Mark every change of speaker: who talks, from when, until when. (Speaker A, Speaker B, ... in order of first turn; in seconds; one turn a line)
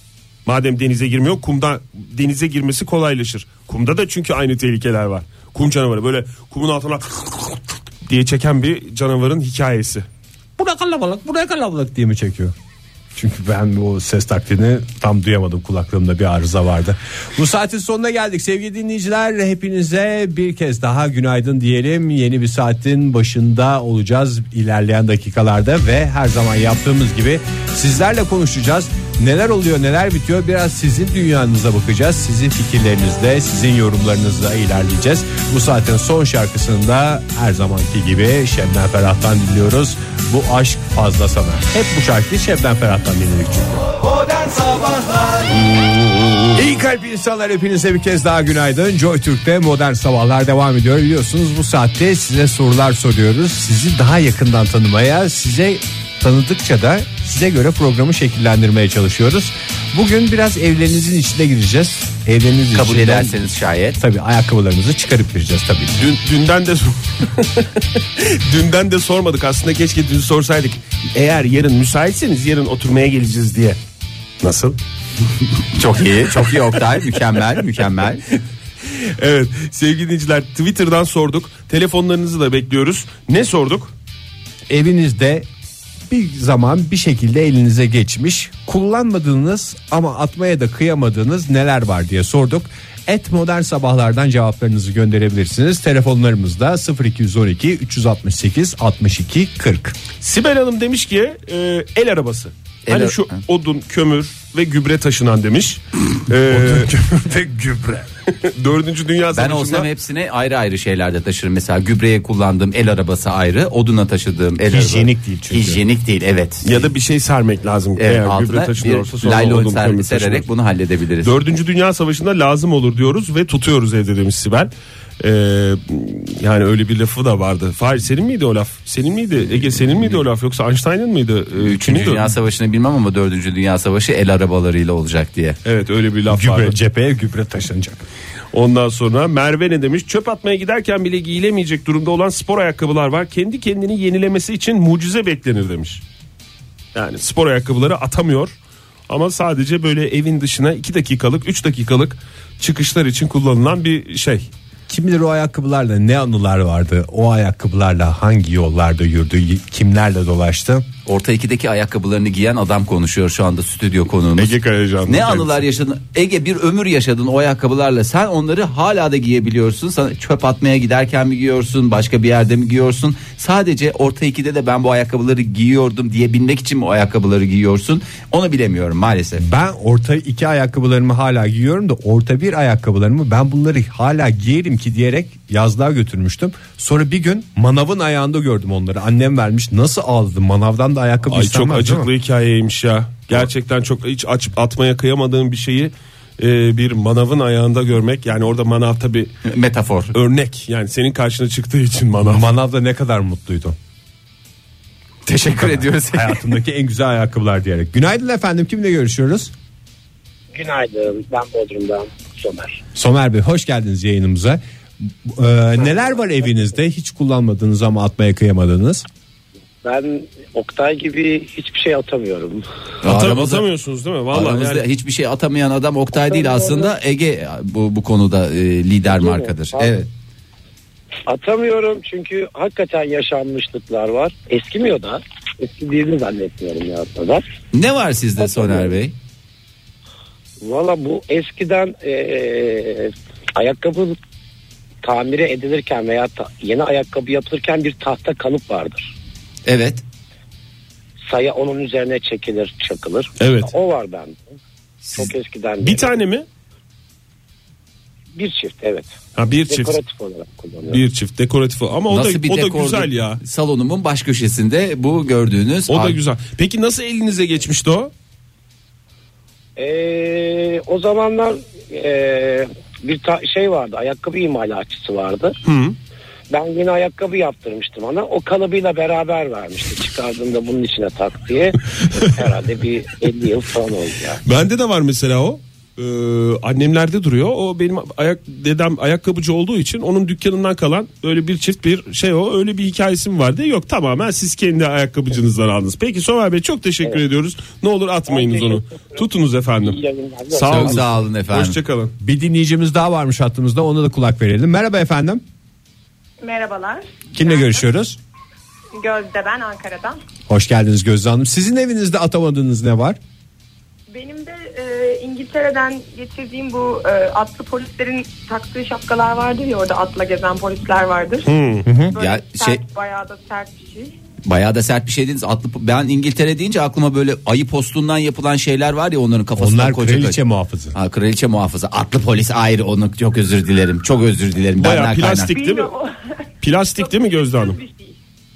Speaker A: 0.5-10.1
Speaker B: 10.6-12.5
Speaker B: 13.1-43.9
Speaker A: 45.5-46.6
Speaker B: 46.5-63.4
Speaker C: 62.7-64.0
Speaker B: 64.0-66.0
Speaker A: 66.0-73.8
Speaker A: 74.4-74.8
Speaker C: 75.7-78.2
Speaker A: 78.9-83.9
Speaker B: 84.7-85.5
Speaker B: 86.1-100.0
Speaker A: 100.2-106.9
Speaker C: 102.9-103.4
Speaker B: 106.5-108.1
Speaker A: 108.3-109.9
Speaker C: 109.3-116.9
Speaker B: 114.7-115.8
Speaker A: 116.6-120.5
Speaker C: 118.0-121.3
Speaker A: 121.2-132.3
Speaker C: 131.6-135.6
Speaker A: 135.6-136.8
Speaker B: 136.3-138.0
Speaker A: 138.5-146.0
Speaker A: 146.9-148.5
Speaker A: 149.1-154.5
Speaker B: 154.9-160.9
Speaker C: 161.1-164.5
Speaker A: 164.3-165.6
Speaker C: 165.1-179.5
Speaker B: 179.4-192.1
Speaker A: 191.3-199.3
Speaker C: 199.4-200.1
Speaker A: 200.1-202.4
Speaker B: 202.2-203.8
Speaker C: 205.2-206.4
Speaker B: 205.5-209.5
Speaker D: 210.5-212.8
Speaker B: 212.9-219.1
Speaker D: 219.8-222.6
Speaker C: 223.0-223.6
Speaker A: 223.0-224.8
Speaker C: 224.3-230.1
Speaker D: 226.2-226.9
Speaker D: 229.1-230.0
Speaker D: 231.3-237.4
Speaker C: 237.7-239.1
Speaker D: 238.4-239.0
Speaker D: 240.6-244.2
Speaker D: 245.0-249.1
Speaker C: 249.7-250.0
Speaker D: 251.3-256.2
Speaker A: 253.4-253.7
Speaker A: 255.8-256.4
Speaker D: 258.3-259.1
Speaker A: 259.4-260.0
Speaker D: 259.7-261.0
Speaker A: 260.9-263.4
Speaker C: 262.1-266.2
Speaker A: 265.9-268.1
Speaker D: 269.8-275.6
Speaker A: 275.6-275.9
Speaker D: 276.5-284.4
Speaker A: 284.4-302.1
Speaker D: 298.3-299.2
Speaker D: 299.8-301.0
Speaker C: 300.7-301.8
Speaker B: 302.2-305.4
Speaker E: 306.4-307.9
Speaker B: 307.3-308.2
Speaker E: 308.9-310.2
Speaker B: 310.5-313.2
Speaker E: 314.1-321.5
Speaker A: 321.4-321.9
Speaker B: 321.9-322.1
Speaker E: 322.1-324.1
Speaker C: 322.1-322.8
Speaker C: 324.4-330.4
Speaker B: 329.6-330.9
Speaker C: 330.9-335.5
Speaker A: 334.8-335.9
Speaker E: 335.5-338.2
Speaker A: 336.6-337.8